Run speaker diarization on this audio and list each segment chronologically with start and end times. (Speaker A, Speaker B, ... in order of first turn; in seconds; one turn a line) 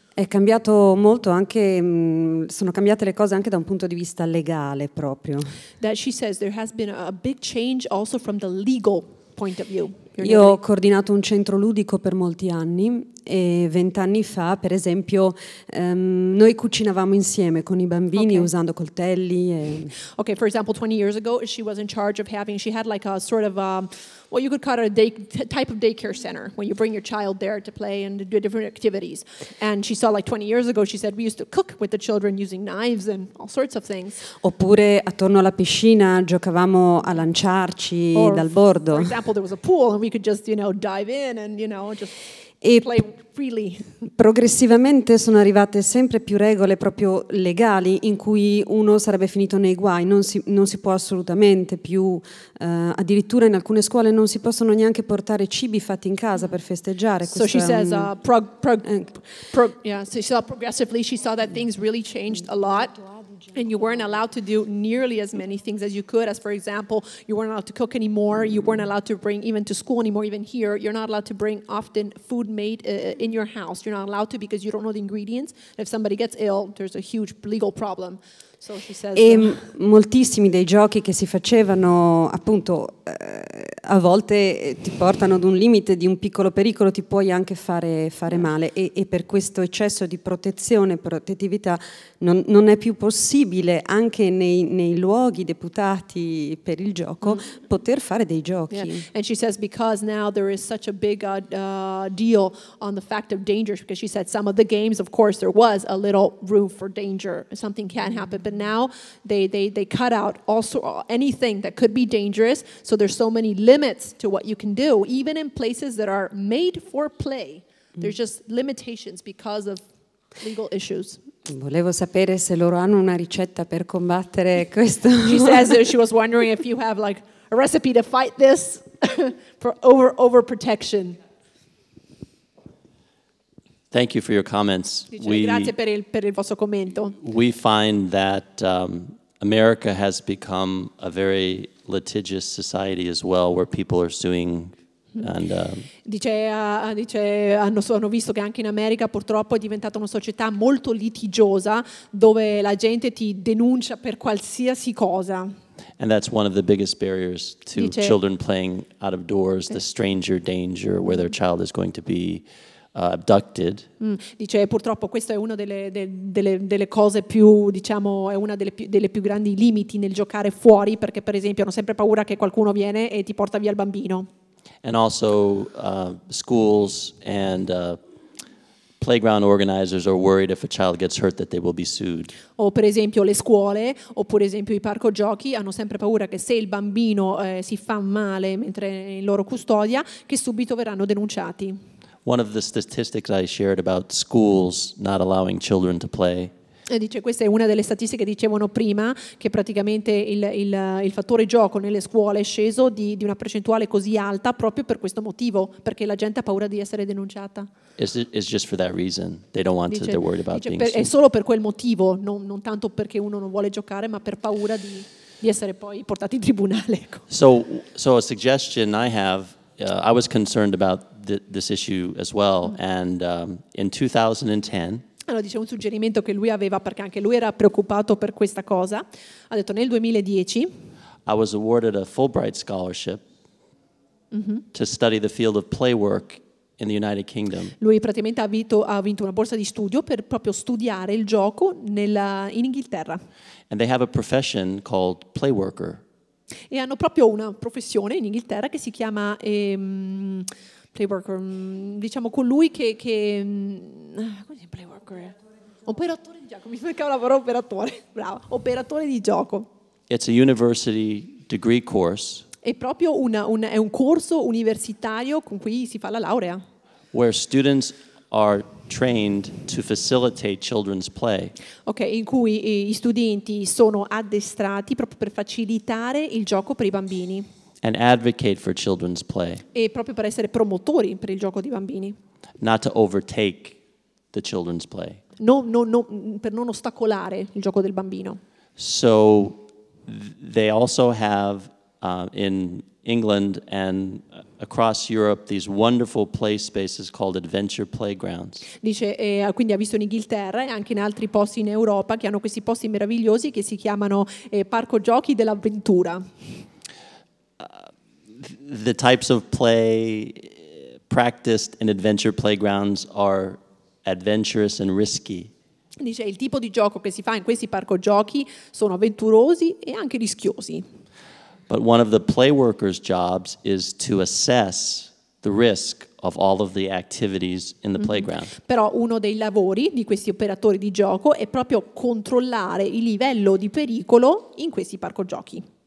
Speaker A: 0.1-5.5
Speaker B: 5.8-10.6
Speaker A: 10.2-19.9
Speaker B: 18.1-18.5
Speaker B: 20.1-34.2
Speaker A: 34.4-39.1
Speaker B: 38.1-43.9
Speaker A: 44.0-58.1
Speaker B: 57.2-79.6
Speaker A: 58.8-59.1
Speaker A: 79.1-99.0
Speaker B: 97.2-97.5
Speaker B: 98.7-121.2
Speaker A: 121.5-125.7
Speaker B: 125.2-131.2
Speaker C: 133.9-135.7
Speaker B: 135.1-137.2
Speaker C: 137.2-145.9
Speaker B: 146.0-155.5
Speaker C: 156.0-163.9
Speaker B: 157.8-158.1
Speaker B: 161.0-161.3
Speaker B: 164.0-174.3
Speaker C: 174.8-178.0
Speaker C: 179.0-182.3
Speaker B: 182.6-191.8
Speaker C: 192.2-196.5
Speaker B: 196.9-207.7
Speaker C: 208.0-211.1
Speaker B: 209.9-217.3
Speaker C: 217.3-225.0
Speaker B: 225.2-230.7
Speaker C: 231.2-233.2
Speaker B: 234.3-234.6
Speaker C: 234.7-237.7
Speaker B: 237.8-243.2
Speaker C: 243.7-246.0
Speaker B: 246.7-259.7
Speaker C: 260.1-262.4
Speaker B: 262.6-266.6
Speaker C: 267.1-271.5
Speaker B: 271.9-277.5
Speaker C: 277.8-279.6
Speaker B: 279.7-282.1
Speaker C: 282.6-283.8
Speaker C: 284.3-285.2
Speaker B: 285.4-288.4
Speaker C: 288.8-298.6
Speaker B: 298.8-306.6
Speaker C: 307.6-315.5
Speaker B: 316.0-320.8
Speaker C: 321.7-328.5
Speaker B: 328.0-335.6